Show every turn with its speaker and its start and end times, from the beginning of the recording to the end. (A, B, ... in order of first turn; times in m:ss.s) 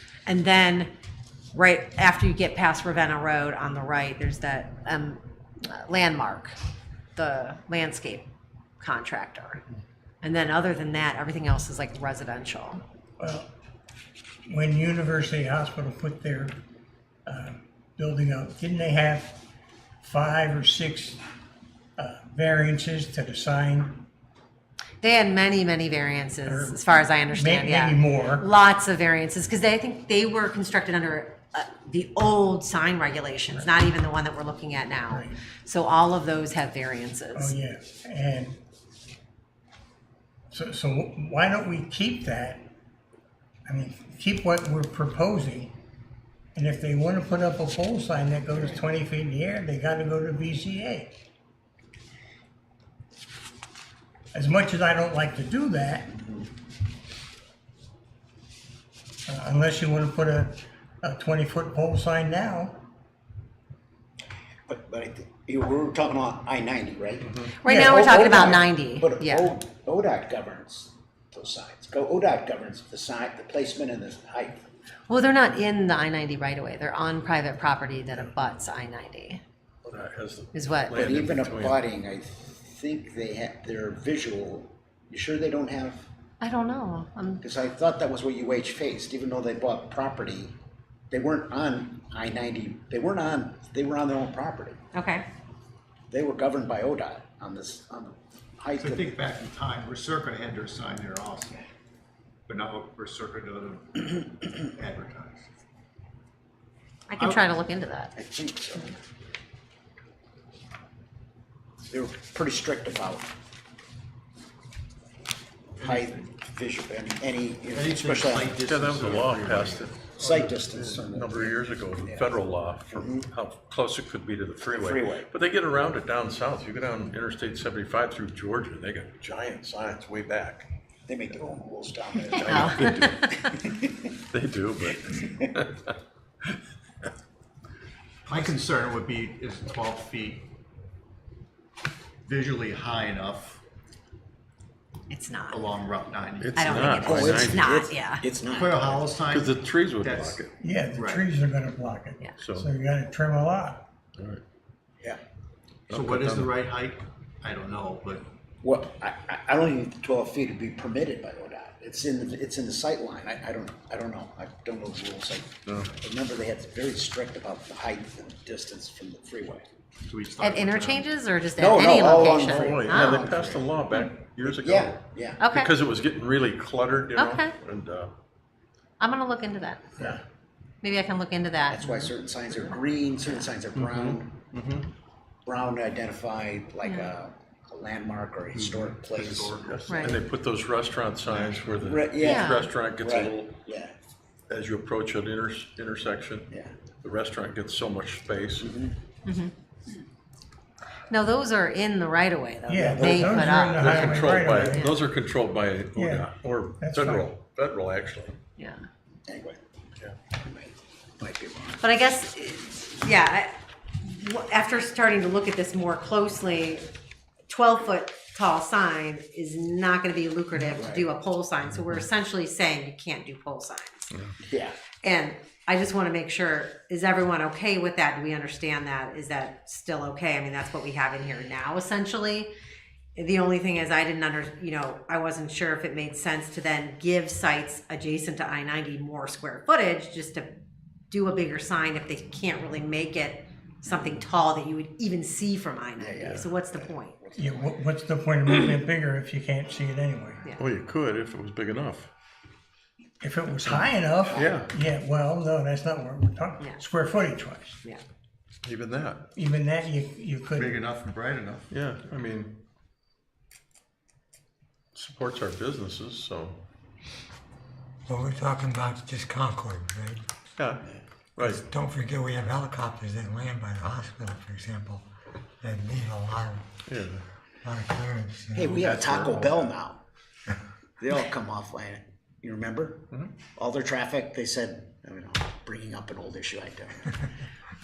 0:00.2-0:00.9 A
0:01.5-0:06.6 A
0:07.2-0:08.2 A
0:08.8-0:09.6 A
0:10.2-0:12.8 A
0:13.2-0:13.4 B
0:14.4-0:16.5 B
0:17.2-0:19.4 B
0:20.0-0:21.2 B
0:22.0-0:24.0 B
0:25.0-0:37.5 A
0:26.4-0:28.4 B
0:35.1-0:35.4 B
0:37.3-0:38.6 B
0:40.5-0:42.7 B
0:43.7-0:45.7 B
0:46.5-0:51.2 B
0:54.3-0:56.1 B
0:56.1-0:56.5 C
0:59.3-1:02.8 B
1:04.7-1:14.6 C
1:07.6-1:09.5 A
1:15.1-1:19.4 A
1:19.9-1:21.8 D
1:20.5-1:21.0 A
1:20.9-1:26.1 C
1:26.4-1:27.4 A
1:27.4-1:30.5 C
1:31.1-1:34.8 C
1:34.9-1:35.2 A
1:36.1-1:39.1 C
1:38.8-1:41.6 E
1:42.5-1:45.4 E
1:47.1-1:48.1 A
1:48.2-1:48.9 C
1:51.9-1:53.3 C
1:55.8-1:58.6 C
1:55.8-1:56.3 E
1:57.8-1:59.9 E
1:58.0-2:10.6 D
2:00.1-2:02.4 C
2:02.9-2:03.3 C
2:04.7-2:05.3 C
2:11.1-2:13.9 C
2:12.3-2:13.6 A
2:12.3-2:13.3 D
2:14.3-2:15.9 D
2:18.3-2:20.4 E
2:22.3-2:23.6 E
2:25.1-2:25.6 A
2:25.5-2:26.8 E
2:26.4-2:27.7 D
2:26.5-2:28.2 A
2:27.0-2:29.2 C
2:28.6-2:31.2 E
2:29.3-2:30.5 D
2:30.6-2:33.8 B
2:32.4-2:32.7 D
2:35.9-2:36.5 D
2:36.0-2:38.3 E
2:38.6-2:49.6 C
2:45.6-2:45.9 D
2:50.0-2:51.0 E
2:50.4-2:53.3 A
2:51.6-2:53.6 C
2:52.5-2:58.1 D
2:54.4-2:55.4 C
2:55.4-2:55.7 A
2:57.2-2:57.5 A
2:59.0-3:00.0 A
3:00.8-3:02.6 A
3:01.7-3:04.4 C
3:03.8-3:04.9 D
3:05.4-3:09.6 C
3:06.8-3:07.1 A
3:08.6-3:09.9 E
3:09.2-3:13.5 D
3:09.9-3:10.2 A
3:11.3-3:13.9 C
3:12.2-3:12.7 A
3:14.5-3:16.5 D
3:17.0-3:18.7 D
3:18.6-3:18.9 C
3:19.2-3:19.5 A
3:21.1-3:25.0 A
3:22.7-3:24.9 B
3:23.8-3:28.4 D
3:25.9-3:26.3 B
3:26.8-3:27.3 B
3:28.6-3:28.8 A
3:29.3-3:29.6 C
3:30.4-3:31.8 C
3:31.8-3:36.8 A
3:37.5-3:44.1 A
3:40.7-3:41.0 C
3:44.5-3:44.7 C
3:45.0-3:52.5 A
3:53.2-4:00.5 A
4:01.1-4:07.2 A
4:06.0-4:07.8 C
4:07.4-4:10.4 B
4:10.6-4:12.1 D
4:13.2-4:17.8 B
4:14.3-4:14.7 C
4:14.3-4:14.6 D
4:18.6-4:19.2 D
4:19.4-4:20.8 B
4:20.6-4:21.6 E
4:21.7-4:22.5 D
4:24.9-4:26.6 D
4:28.1-4:30.2 F
4:30.6-4:30.8 D
4:31.4-4:31.6 D
4:31.4-4:35.0 F
4:35.6-4:36.7 F
4:36.9-4:37.2 D
4:37.6-4:38.8 F
4:38.5-4:40.0 C
4:38.7-4:39.7 D
4:41.0-4:47.3 C